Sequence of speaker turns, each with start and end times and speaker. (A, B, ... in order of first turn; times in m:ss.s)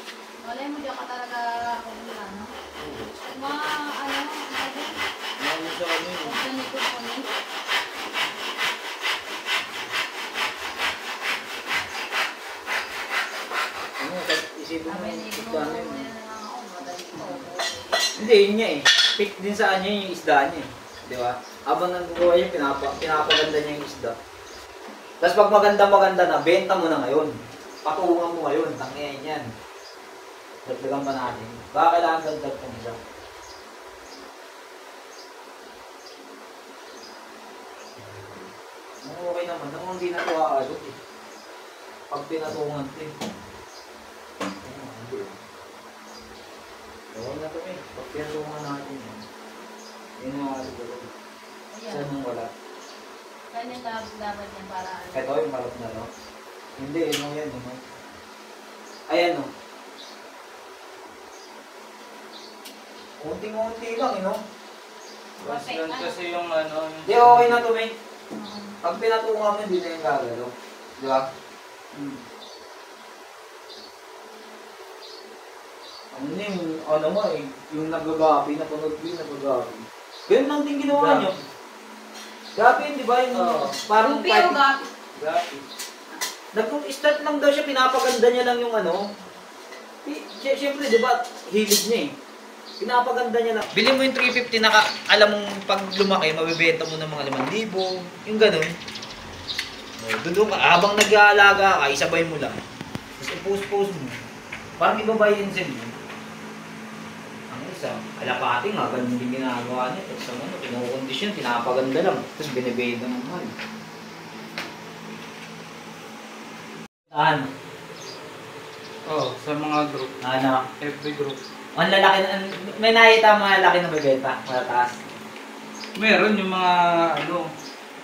0:00.4-0:02.5 A
0:02.8-0:03.1 B
0:03.2-0:05.0 A
0:05.4-0:06.4 B
0:06.2-0:07.2 A
0:14.0-0:16.0 B
0:14.9-0:18.2 A
0:17.1-0:17.5 B
0:18.2-0:24.1 B
0:25.2-0:27.3 B
0:27.8-0:29.4 B
0:30.6-0:32.9 B
0:38.0-0:38.5 B
0:39.0-0:40.9 B
0:42.1-0:43.1 B
0:44.6-0:45.3 B
0:47.1-0:49.2 B
0:50.2-0:51.1 B
0:51.7-0:52.1 A
0:51.9-0:52.5 B
0:53.5-0:55.3 A
0:55.1-0:56.1 B
0:56.8-0:57.8 B
0:59.1-0:59.5 B
1:03.2-1:04.4 B
1:05.4-1:06.2 A
1:05.4-1:07.7 C
1:07.0-1:07.9 B
1:08.3-1:08.8 A
1:08.8-1:11.2 B
1:11.9-1:12.2 C
1:16.1-1:21.3 B
1:20.9-1:21.3 C
1:22.6-1:24.6 B
1:23.3-1:24.9 A
1:26.5-1:29.0 B
1:30.0-1:32.1 B
1:32.8-1:38.7 B
1:40.0-1:42.6 B
1:43.2-1:44.1 B
1:44.8-1:45.9 B
1:47.5-1:53.5 B
1:57.1-1:57.5 B
1:59.1-2:00.1 C
2:00.2-2:00.6 B
2:00.8-2:01.4 C
2:01.8-2:05.0 B
2:06.0-2:07.4 C